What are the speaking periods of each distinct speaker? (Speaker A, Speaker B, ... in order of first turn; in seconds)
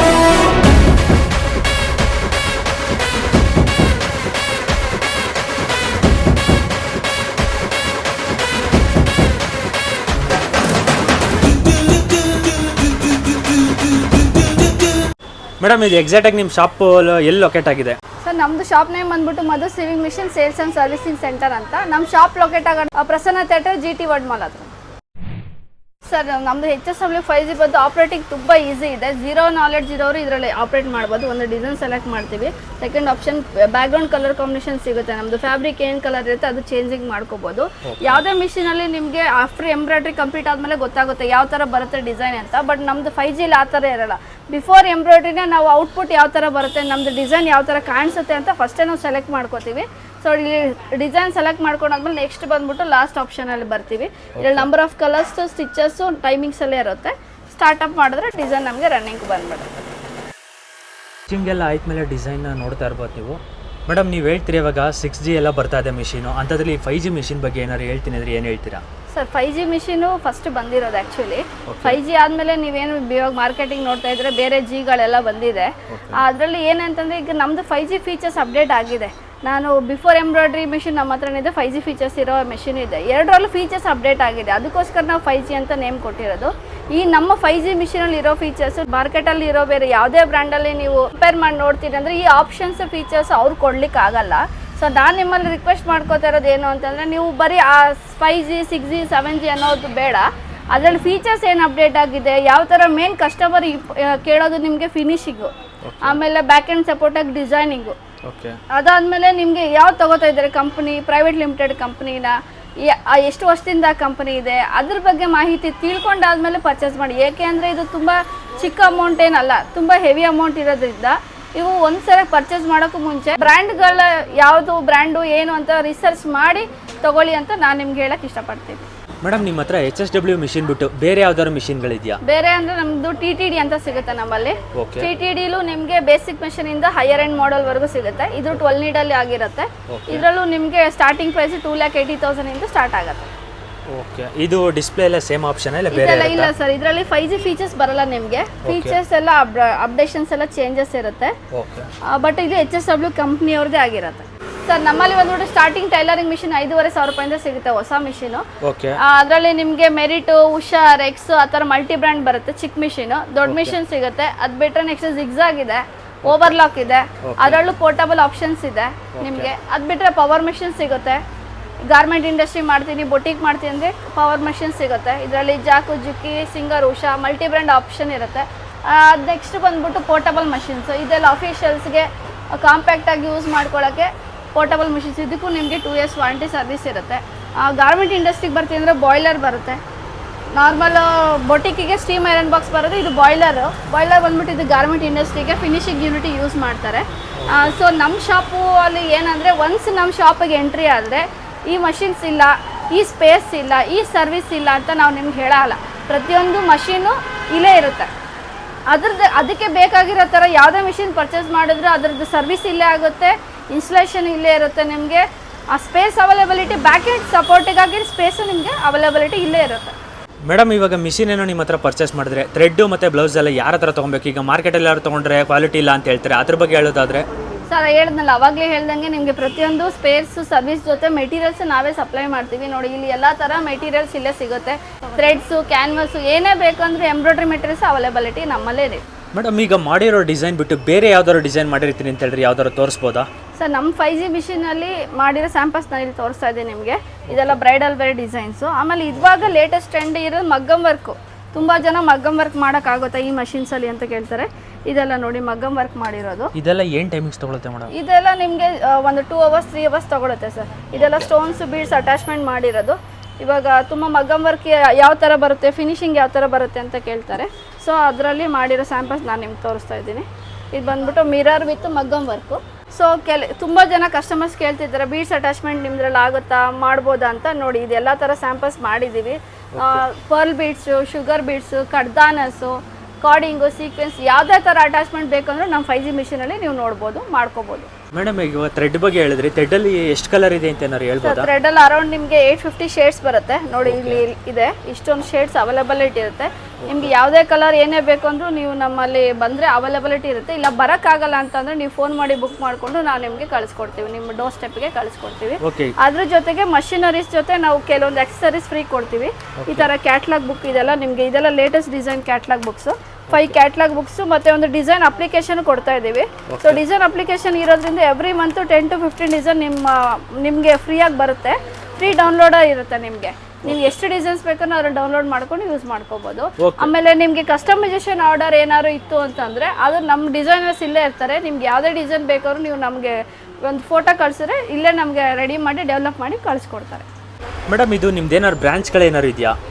Speaker A: 15.6-18.0, 37.8-38.2, 54.4-54.7, 61.3-68.8, 71.7-72.0, 75.9-76.2, 105.8-106.2, 108.2-108.6, 129.2-132.2, 134.7-135.1, 139.9-140.2, 143.9-146.5, 148.6-149.0, 151.5-151.9, 158.6-159.0, 163.4-163.8, 166.2-166.6, 167.2-167.6, 169.1-169.5, 197.4-197.8, 220.5-227.3, 239.3-243.3, 247.3-247.6, 249.2-249.5, 256.5-257.9, 260.9-261.3, 279.7-280.0, 288.1-291.5, 293.8-294.2, 296.8-297.1, 305.6-305.9, 309.6-309.9, 316.5-316.8, 323.6-323.9, 326.6-326.9, 337.7-339.6
Speaker B: 18.2-24.7, 26.1-59.7, 69.1-108.0, 108.7-128.9, 132.2-143.3, 145.9-151.3, 152.0-158.4, 159.0-171.2, 171.9-189.8, 190.5-208.1, 208.9-219.9, 227.7-239.0, 243.6-256.5, 257.9-287.9, 291.2-337.1